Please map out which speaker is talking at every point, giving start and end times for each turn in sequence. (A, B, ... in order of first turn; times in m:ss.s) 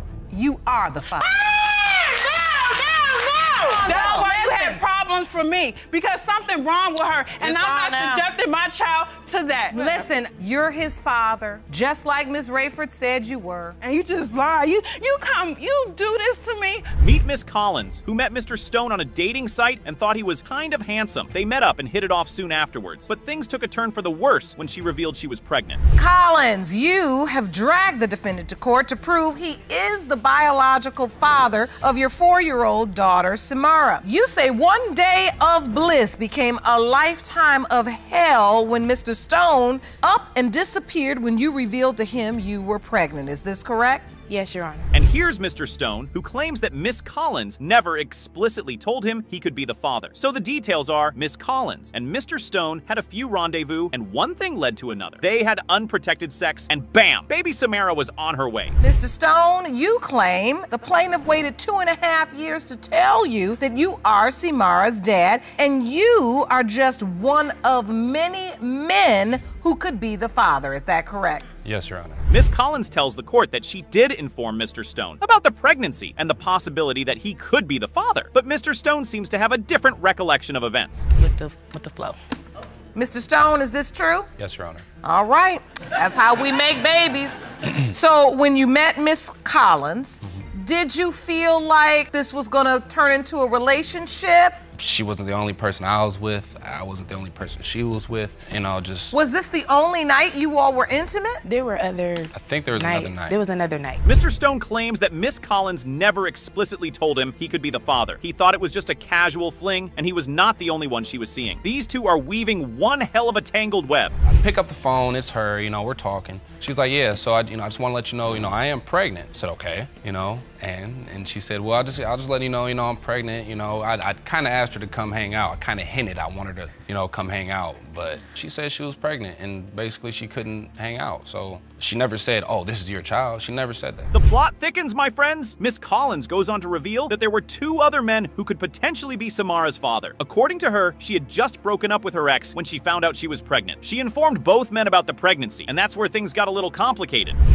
0:00.3-0:01.3 A
0:01.2-0:10.1 B
0:03.6-0:04.8 A
0:07.4-0:08.3 A
0:09.7-0:13.8 A
0:13.8-0:16.8 B
0:17.0-0:25.8 C
0:25.9-0:44.1 A
0:44.3-0:44.9 D
0:44.9-0:58.8 C
0:58.8-1:11.4 A
1:11.6-1:12.2 E
1:12.3-1:21.0 C
1:21.1-1:22.2 D
1:22.9-1:24.3 A
1:24.4-1:24.8 E
1:25.0-1:34.6 A
1:34.8-1:39.1 E
1:39.1-1:41.4 A
1:41.4-1:44.0 D
1:42.3-1:43.4 E
1:44.0-1:54.1 C
1:54.2-2:14.1 E
2:14.1-2:27.4 C